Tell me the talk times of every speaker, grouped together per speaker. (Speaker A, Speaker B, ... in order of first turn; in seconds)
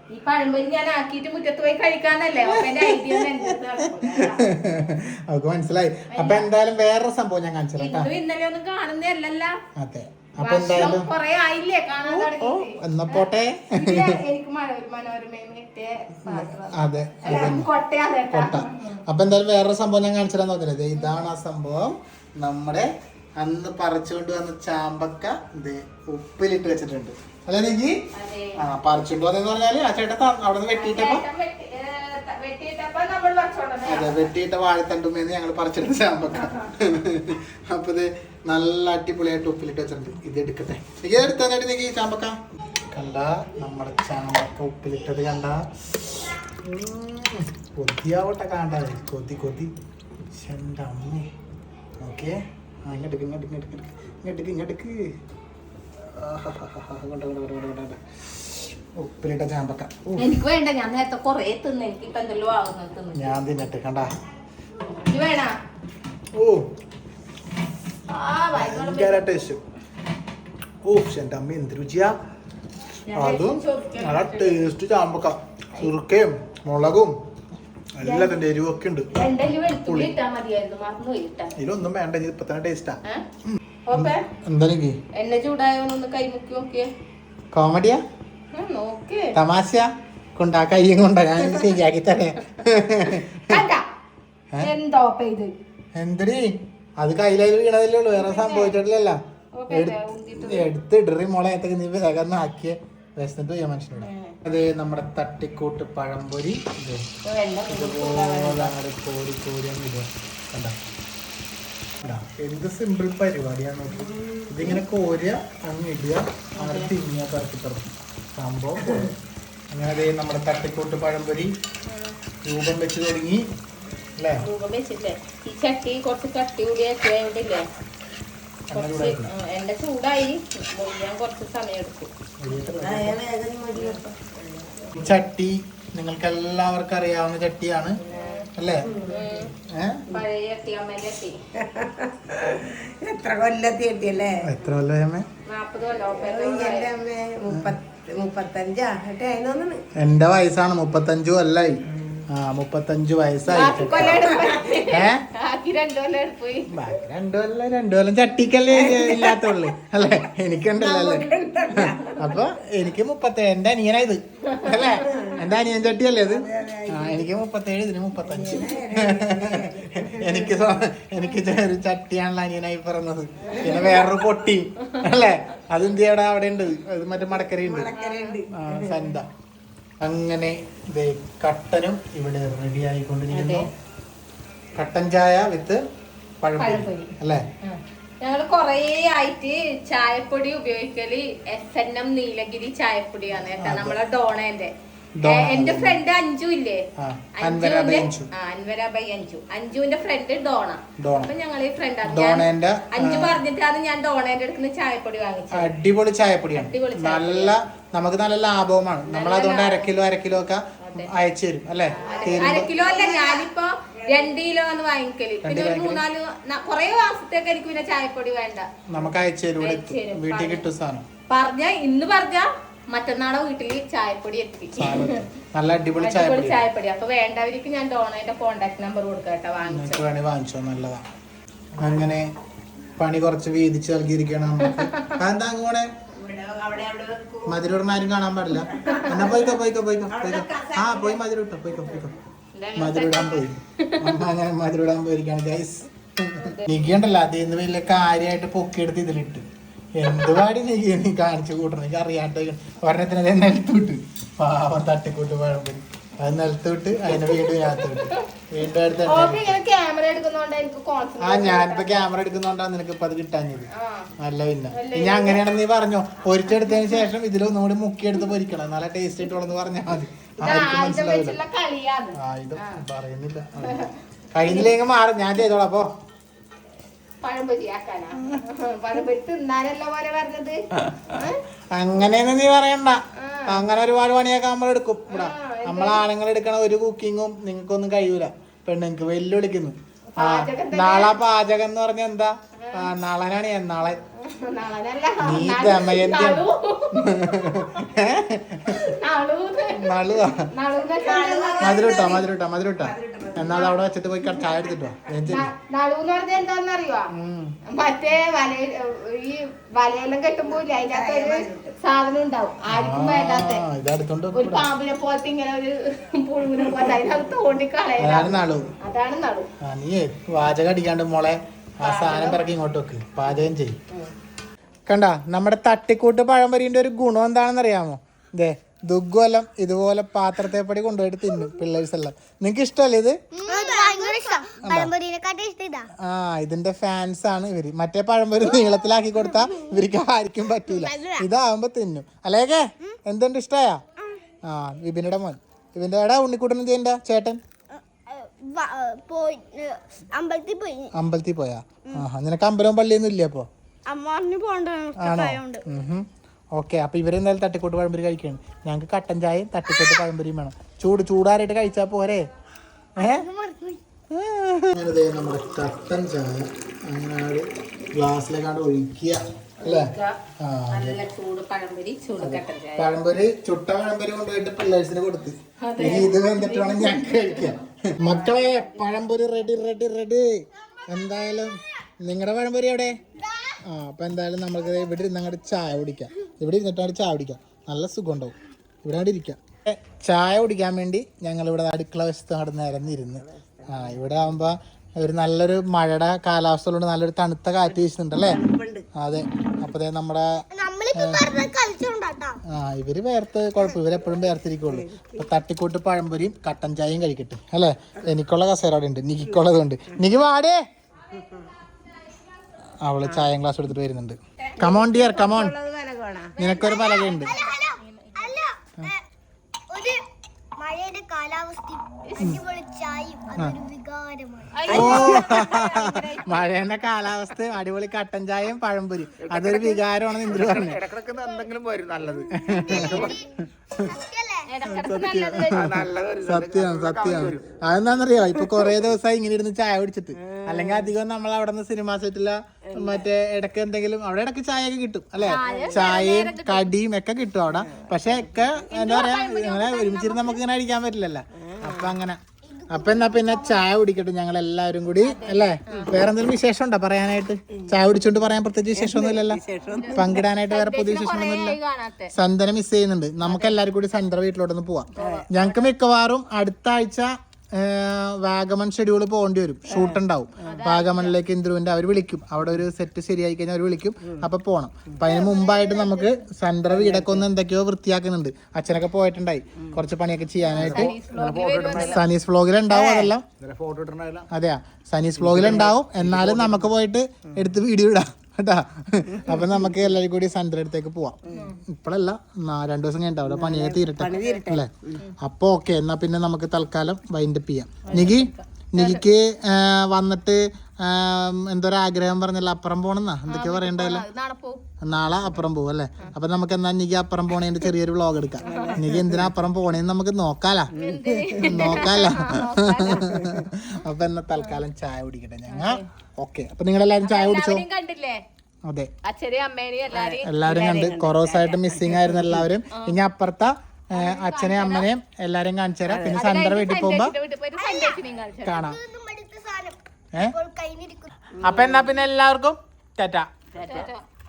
Speaker A: 0.1-4.5, 6.1-6.5, 7.8-9.6, 10.4-19.0, 21.0-21.2, 28.1-28.6, 30.7-34.3, 36.4-36.7, 60.2-63.4, 65.1-65.5, 68.1-69.4, 73.1-74.6, 78.0-78.4, 79.1-81.5, 83.9-84.3, 85.2-86.9, 88.5-89.3, 93.5-93.9, 94.6-95.5, 98.1-98.8, 99.6-100.7, 104.0-104.4, 107.2-108.8, 116.6-116.9, 121.9-122.2, 124.4-127.7, 128.7-132.1, 133.7-134.0, 138.1-139.5, 140.1-141.4, 145.5-147.0, 153.5-156.7, 164.6-165.3, 173.7-173.9, 177.9-178.4, 183.3-183.7, 186.6-194.7, 195.2-196.9, 197.4-205.7, 206.6-207.6, 209.1-209.9, 210.8-211.1, 212.0-218.7, 219.6-220.7, 221.3-225.1, 226.0-230.1, 234.6-235.1, 238.8-239.3, 242.6-244.2, 246.4-246.7, 257.2-258.2, 259.1-262.1, 263.7-264.1, 264.7-265.4, 266.5-267.0, 270.4-272.8, 273.6-273.9, 274.4-274.7, 277.2-281.4, 283.2-283.7, 285.1-286.0, 290.1-291.1, 292.6-292.9, 294.2-297.4, 298.7-302.3, 303.5-303.8, 305.3-307.1, 307.7-313.6, 314.3-319.5, 321.8-322.4, 369.6-370.2, 370.7-372.9, 375.6-379.0, 414.4-415.3, 417.2-418.4, 422.1-422.4, 424.6-426.6, 432.8-433.2, 434.5-435.7, 445.2-446.7, 448.7-450.4, 455.0-455.9, 459.7-462.1, 463.2-463.6, 464.9-465.7, 470.4-471.2, 475.1-475.8, 480.5-482.0, 494.1-494.4, 497.9-499.1, 503.3-504.7, 508.4-508.8, 510.7-513.2, 515.5-515.9, 517.0-518.2, 519.0-520.3, 523.9-524.9, 526.1-528.6, 533.5-534.0
Speaker B: 2.5-8.1, 9.8-11.1, 12.1-14.2, 16.2-17.7, 18.3-28.0, 28.6-31.2, 33.9-42.4, 42.9-49.7, 50.3-51.3, 52.0-55.0, 56.1-60.3, 63.1-64.1, 66.3-66.7, 68.5-69.6, 70.8-72.2, 73.1-77.2, 78.0-80.1, 81.6-85.0, 87.5-88.0, 89.3-93.6, 96.0-99.2, 99.7-107.1, 107.7-110.8, 112.0-119.1, 119.7-121.5, 122.5-123.5, 124.2-124.5, 128.7-129.3, 132.4-133.2, 134.9-138.0, 138.6-138.9, 139.6-140.1, 144.4-145.3, 147.5-147.8, 150.0-154.3, 154.9-155.2, 156.7-177.9, 178.5-179.3, 180.0-183.7, 184.8-185.8, 186.4-187.4, 193.6-194.0, 195.2-196.0, 197.0-198.3, 201.0-201.3, 202.0-203.4, 205.5-212.7, 215.4-216.0, 218.9-221.1, 224.8-226.6, 229.7-231.0, 231.8-232.3, 233.0-235.9, 237.4-242.2, 242.8-249.5, 250.0-259.6, 261.2-271.4, 272.2-275.9, 281.8-294.0, 295.2-298.9, 299.7-300.5, 301.6-305.5, 307.1-307.6, 312.7-314.7, 318.0-318.7, 319.6-323.8, 324.9-333.2, 334.6-334.9, 336.0-343.8, 344.5-347.4, 350.9-353.5, 355.0-362.3, 363.0-363.3, 364.1-371.0, 372.2-383.0, 383.6-398.4, 399.0-400.4, 400.9-401.4, 402.5-410.6, 412.8-415.6, 416.4-417.4, 424.7-430.9, 432.3-433.2, 434.6-459.4, 459.9-461.6, 462.1-481.0, 481.7-483.3, 484.3-504.0, 504.8-510.7, 511.4-517.6, 520.2-527.1, 528.4-528.8, 531.4-533.3
Speaker C: 132.8-134.9, 138.0-139.4, 141.6-144.5, 146.1-149.8, 151.9-152.2, 154.2-154.5, 158.7-159.4, 160.7-162.5, 165.1-165.4, 166.2-167.3, 168.2-170.7, 177.6-179.2, 211.9-214.3, 236.1-237.6, 238.7-239.4, 240.1-241.2, 300.9-302.2, 302.8-303.5, 310.6-311.8, 333.5-334.4, 393.3-394.1, 398.2-398.9, 404.7-405.3, 411.1-411.5, 414.9-416.3, 424.7-425.7, 430.3-431.0, 435.6-436.1, 440.2-440.9, 442.7-443.1, 445.4-445.9, 447.6-447.9, 451.4-451.9, 457.6-457.8, 458.7-460.2, 465.0-465.3, 469.7-470.0, 476.7-477.3, 480.6-482.0, 482.7-483.1, 485.4-485.8, 491.3-491.5, 493.3-495.0, 508.4-509.3, 510.7-511.9, 512.9-513.5, 519.9-522.5, 525.9-526.2, 531.4-531.9, 533.5-533.9
Speaker D: 333.4-335.9, 338.4-339.7, 340.7-341.2, 347.9-350.9, 353.9-355.6, 363.0-363.8, 400.5-402.4, 416.4-419.0, 419.7-420.0, 420.6-424.6, 431.2-431.5, 432.6-433.3, 433.9-434.5, 452.5-453.6, 475.5-476.0, 527.6-531.1
Speaker E: 430.8-432.3, 435.6-437.4, 480.8-481.7, 483.4-484.2